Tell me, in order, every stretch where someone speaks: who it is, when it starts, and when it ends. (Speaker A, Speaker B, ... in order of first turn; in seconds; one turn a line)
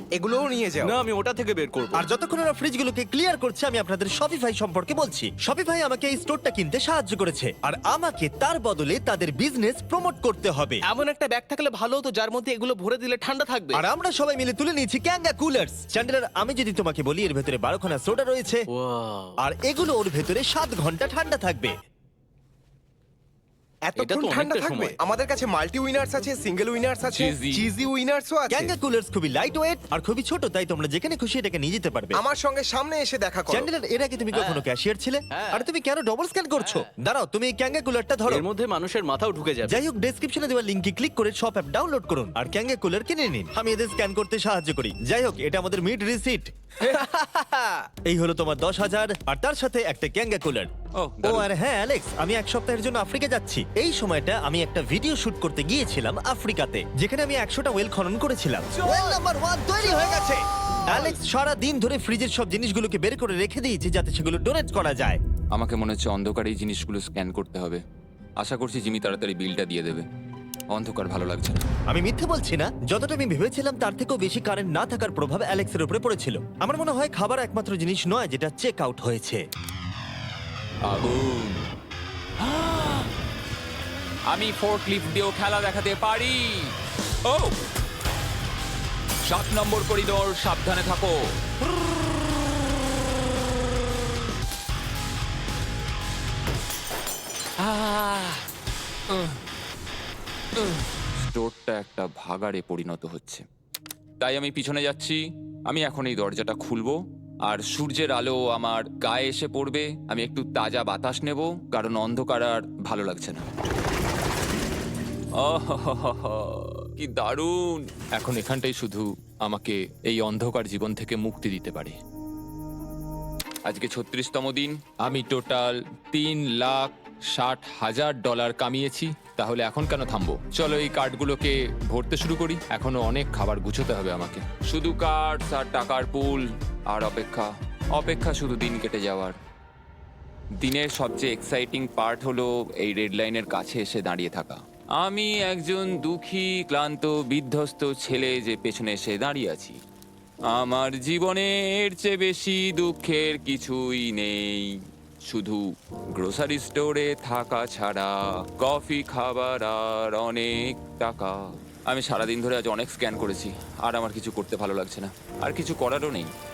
Speaker A: 0.1-1.0
Speaker B: 0.8-2.1
Speaker C: 1.9-10.8
Speaker B: 11.0-13.8
Speaker C: 13.7-18.6
Speaker B: 18.7-19.4
Speaker C: 19.4-21.7
Speaker A: 23.8-28.7
Speaker B: 24.0-25.0
Speaker D: 27.1-27.7
Speaker C: 28.5-32.2
Speaker A: 32.1-33.7
Speaker C: 33.5-38.5
Speaker B: 34.3-34.7
Speaker B: 35.3-35.7
Speaker B: 36.6-36.9
Speaker B: 38.2-39.8
Speaker C: 39.7-46.5
Speaker A: 46.9-47.8
Speaker C: 48.1-50.7
Speaker D: 50.9-51.5
Speaker C: 51.2-65.2
Speaker A: 58.9-59.1
Speaker D: 65.5-67.8
Speaker D: 68.4-70.0
Speaker D: 70.7-71.7
Speaker C: 71.9-79.4
Speaker D: 80.8-81.7
Speaker D: 82.4-83.1
Speaker D: 84.3-87.6
Speaker D: 89.2-91.3
Speaker D: 97.6-98.5
Speaker D: 99.1-99.4
Speaker D: 100.5-103.4
Speaker D: 104.2-113.5
Speaker D: 115.3-122.0
Speaker D: 123.6-139.4
Speaker D: 140.6-149.8
Speaker D: 150.5-166.3